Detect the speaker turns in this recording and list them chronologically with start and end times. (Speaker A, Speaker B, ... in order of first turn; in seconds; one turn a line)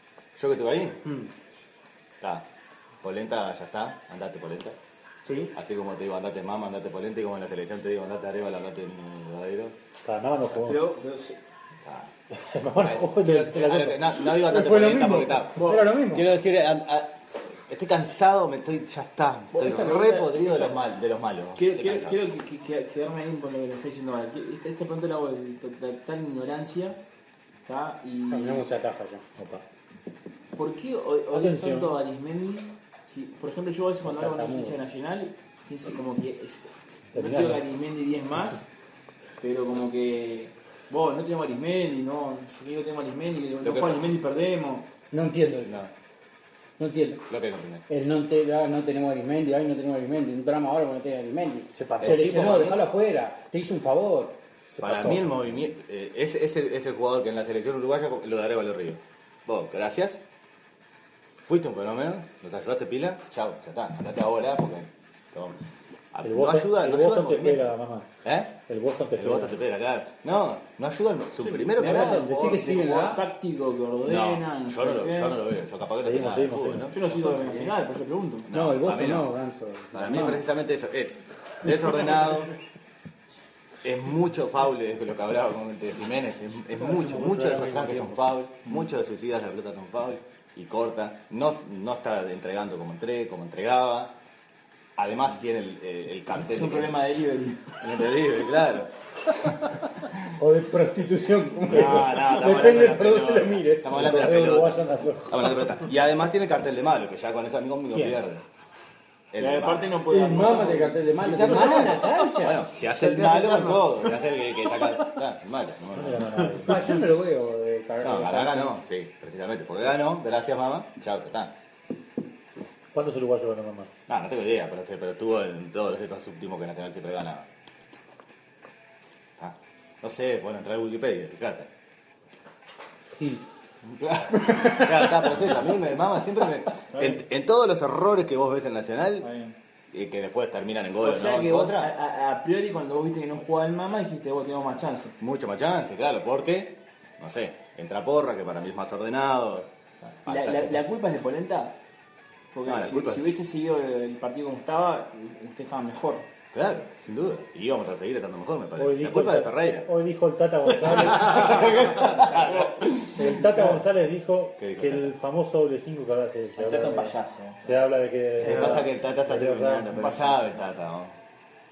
Speaker A: 0.4-1.0
Speaker B: 1.1-1.3
Speaker A: 2.2-2.5
Speaker A: 3.0-4.8
Speaker B: 5.2-5.5
Speaker A: 5.5-9.8
Speaker C: 10.0-10.8
Speaker D: 10.5-11.4
Speaker A: 11.8-12.1
Speaker C: 12.3-14.0
Speaker A: 12.7-17.2
Speaker E: 14.3-16.2
Speaker A: 17.7-22.2
Speaker D: 19.6-20.7
Speaker E: 19.6-20.3
Speaker D: 21.6-27.0
Speaker D: 27.6-28.7
Speaker E: 28.3-29.2
Speaker C: 29.4-29.6
Speaker D: 30.6-38.7
Speaker C: 31.3-32.0
Speaker E: 34.0-34.8
Speaker C: 37.1-37.6
Speaker D: 39.4-44.9
Speaker A: 43.6-44.1
Speaker E: 45.1-45.8
Speaker A: 45.6-45.9
Speaker E: 46.8-47.2
Speaker A: 47.3-47.8
Speaker E: 47.9-54.4
Speaker C: 51.7-52.8
Speaker A: 52.0-52.4
Speaker C: 54.8-55.4
Speaker A: 54.8-60.2
Speaker A: 61.5-65.6
Speaker A: 66.1-68.6
Speaker C: 66.2-68.1
Speaker C: 68.7-69.6
Speaker A: 69.2-72.3
Speaker D: 71.4-75.4
Speaker E: 71.8-73.2
Speaker A: 74.0-76.9
Speaker C: 76.0-77.0
Speaker D: 76.9-78.5
Speaker B: 77.0-77.7
Speaker A: 78.5-79.3
Speaker E: 78.5-80.4
Speaker A: 79.9-82.5
Speaker A: 83.8-94.2
Speaker B: 86.8-88.2
Speaker A: 95.0-97.0
Speaker D: 96.3-98.0
Speaker A: 97.8-98.9
Speaker E: 100.4-104.7
Speaker A: 101.7-108.4
Speaker C: 101.9-102.2
Speaker C: 103.9-105.6
Speaker A: 109.3-109.9
Speaker D: 109.4-111.9
Speaker E: 110.1-112.6
Speaker A: 111.2-116.5
Speaker E: 113.4-113.8
Speaker C: 115.9-117.0
Speaker E: 116.7-118.8
Speaker A: 118.0-121.5
Speaker C: 122.9-123.9
Speaker A: 124.1-127.5
Speaker A: 129.4-131.7
Speaker E: 133.2-133.4
Speaker A: 133.8-139.3
Speaker A: 139.9-141.9
Speaker D: 141.0-145.2
Speaker A: 145.2-150.8
Speaker D: 150.3-151.8
Speaker D: 152.5-156.3
Speaker A: 152.6-153.3
Speaker A: 156.5-159.9
Speaker C: 158.8-161.7
Speaker A: 161.0-163.3
Speaker D: 161.1-163.3
Speaker C: 163.2-170.3
Speaker A: 164.6-165.1
Speaker D: 166.6-168.7
Speaker A: 168.4-171.2